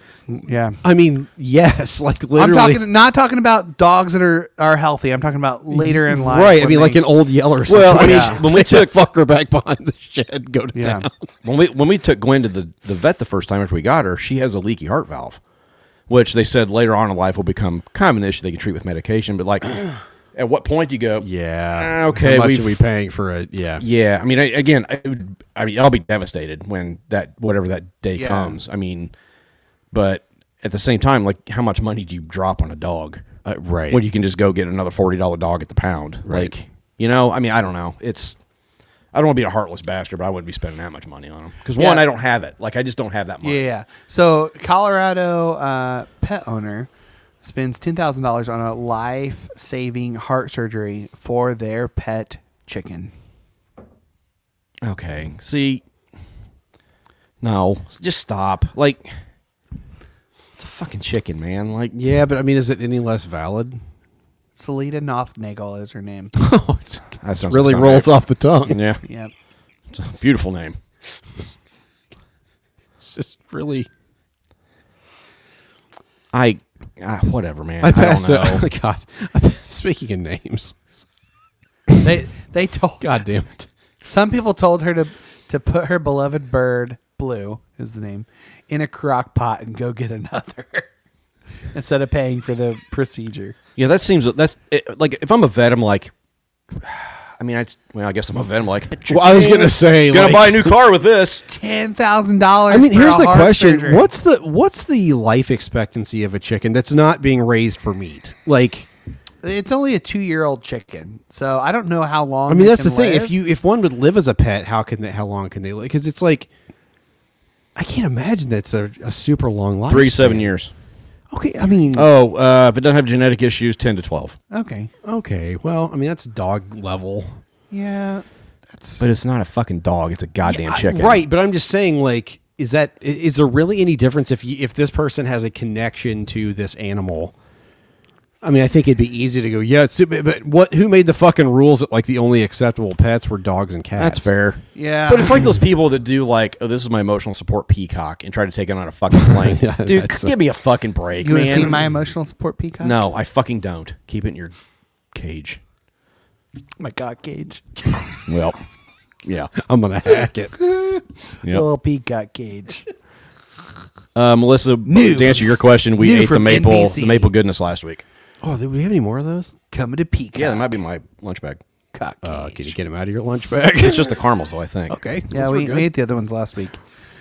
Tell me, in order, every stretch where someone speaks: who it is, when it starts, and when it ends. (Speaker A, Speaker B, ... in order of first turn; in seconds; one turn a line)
Speaker A: 0.3-0.8
Speaker B: 0.8-2.8
Speaker A: 2.4-7.0
Speaker B: 5.7-11.3
Speaker C: 7.7-8.9
Speaker A: 7.9-8.4
Speaker A: 10.7-11.1
Speaker C: 11.4-15.4
Speaker C: 16.1-22.8
Speaker B: 21.2-23.8
Speaker C: 23.8-29.1
Speaker A: 28.1-28.6
Speaker C: 29.9-33.2
Speaker B: 33.4-34.0
Speaker C: 33.9-38.4
Speaker B: 36.2-36.6
Speaker C: 39.1-43.7
Speaker A: 41.8-42.0
Speaker A: 43.4-46.9
Speaker A: 47.4-53.1
Speaker C: 54.8-55.8
Speaker C: 57.4-59.1
Speaker C: 60.5-61.9
Speaker B: 61.9-63.8
Speaker A: 64.5-66.3
Speaker B: 66.3-68.8
Speaker C: 67.2-68.1
Speaker C: 68.6-69.0
Speaker A: 69.0-69.3
Speaker C: 69.9-70.8
Speaker B: 73.0-73.9
Speaker C: 76.3-78.6
Speaker B: 77.8-80.8
Speaker A: 82.0-83.0
Speaker B: 83.0-83.7
Speaker A: 84.0-90.9
Speaker A: 91.7-93.5
Speaker C: 93.8-96.1
Speaker C: 96.8-101.4
Speaker B: 99.1-100.8
Speaker A: 101.5-104.1
Speaker B: 102.7-108.9
Speaker A: 109.4-113.3
Speaker B: 112.5-116.5
Speaker B: 117.7-120.5
Speaker C: 119.9-120.7
Speaker B: 121.3-122.1
Speaker C: 121.9-124.4
Speaker A: 124.5-124.9
Speaker B: 125.0-127.4
Speaker A: 127.7-129.0
Speaker C: 129.0-131.2
Speaker B: 130.4-137.3
Speaker B: 138.4-144.3
Speaker C: 144.0-151.8
Speaker A: 144.7-145.4
Speaker B: 149.2-150.4
Speaker A: 151.2-152.9
Speaker C: 152.8-154.6
Speaker C: 155.1-155.6
Speaker A: 156.8-158.2
Speaker C: 158.3-158.6
Speaker C: 159.2-159.5
Speaker B: 159.5-160.5
Speaker A: 160.6-162.9
Speaker C: 164.1-168.0
Speaker A: 164.8-167.3
Speaker B: 168.4-169.5
Speaker A: 169.7-170.7
Speaker C: 170.3-171.6
Speaker A: 171.9-172.8
Speaker B: 172.2-174.2
Speaker C: 173.8-175.0
Speaker B: 174.9-175.9
Speaker A: 175.3-176.8